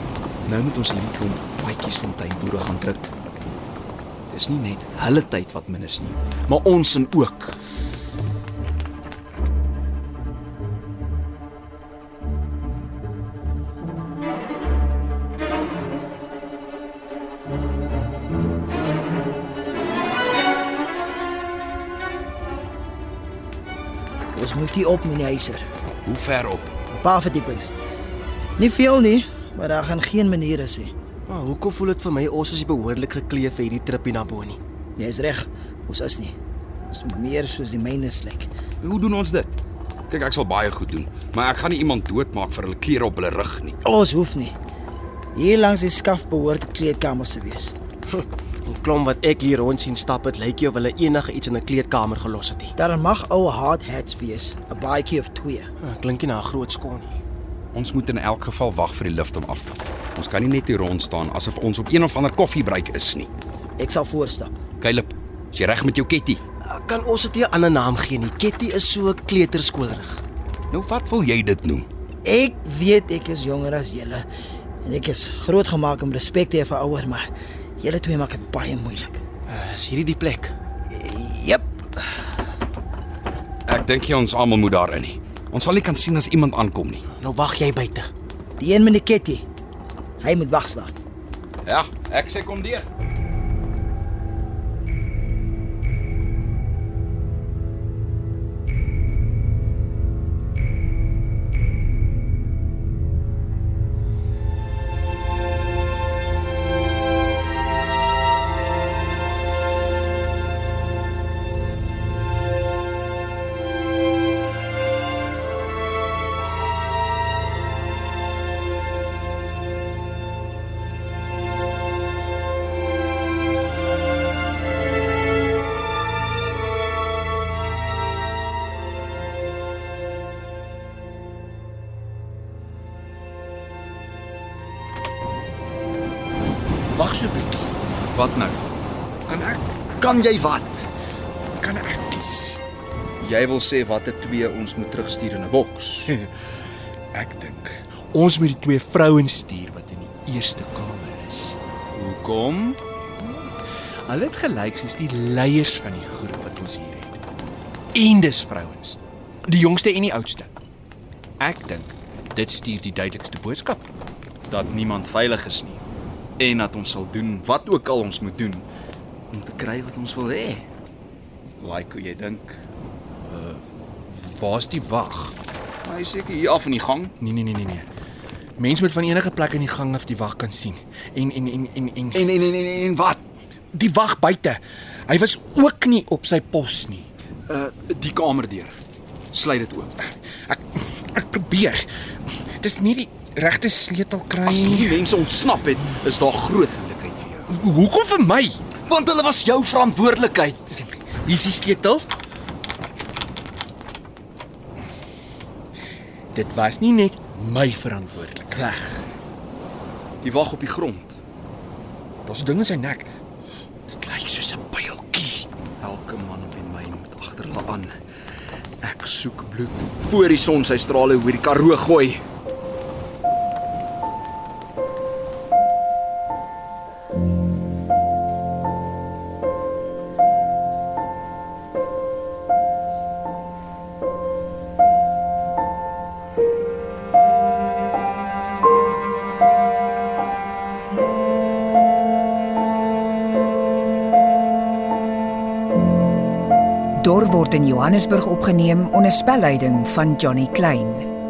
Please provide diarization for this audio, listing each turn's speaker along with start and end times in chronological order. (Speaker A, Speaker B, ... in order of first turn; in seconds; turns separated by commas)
Speaker A: 0.5-3.1, Speaker A: 4.3-7.6, Speaker B: 24.3-25.6, Speaker C: 26.1-26.7, Speaker B: 26.9-27.7, Speaker B: 28.6-30.9, Speaker D: 31.3-34.6, Speaker B: 35.0-36.4, Speaker B: 36.9-38.5, Speaker C: 38.8-39.5, Speaker C: 40.1-43.7, Speaker B: 43.8-44.5, Speaker B: 45.4-47.7, Speaker D: 48.1-52.7, Speaker B: 52.8-55.7, Speaker D: 55.8-57.2, Speaker C: 57.7-63.3, Speaker B: 63.8-64.5, Speaker C: 64.8-66.4, Speaker D: 66.7-70.2, Speaker C: 70.7-71.8, Speaker B: 72.2-74.2, Speaker B: 74.8-77.3, Speaker B: 77.8-79.2, Speaker D: 79.5-80.5, Speaker B: 80.9-82.3, Speaker C: 83.7-87.0, Speaker D: 87.2-88.1, Speaker B: 88.6-89.4, Speaker B: 90.2-90.9, Speaker C: 91.7-92.8, Speaker E: 136.9-137.7, Speaker A: 138.1-138.6, Speaker E: 139.3-139.7, Speaker A: 140.0-140.9, Speaker E: 141.6-142.6, Speaker A: 143.2-146.2, Speaker E: 147.1-151.6, Speaker A: 151.9-152.8, Speaker E: 154.1-157.2, Speaker E: 157.9-160.5, Speaker E: 161.4-163.8, Speaker A: 164.5-165.8, Speaker A: 166.4-168.7, Speaker A: 169.3-170.7, Speaker A: 171.6-172.6, Speaker E: 173.2-175.3, Speaker A: 175.8-177.1, Speaker E: 177.2-177.8, Speaker E: 178.6-182.3, Speaker A: 182.1-183.2, Speaker E: 183.7-187.0, Speaker A: 187.5-188.8, Speaker A: 189.3-189.9, Speaker E: 190.5-191.9, Speaker E: 192.6-195.0, Speaker A: 194.4-197.5, Speaker E: 197.5-198.6, Speaker A: 198.8-200.8, Speaker E: 200.8-202.0, Speaker E: 206.3-209.0, Speaker A: 210.2-211.1, Speaker E: 212.2-213.1, Speaker E: 213.9-215.5, Speaker A: 215.8-217.9, Speaker A: 218.8-222.2, Speaker F: 247.0-251.1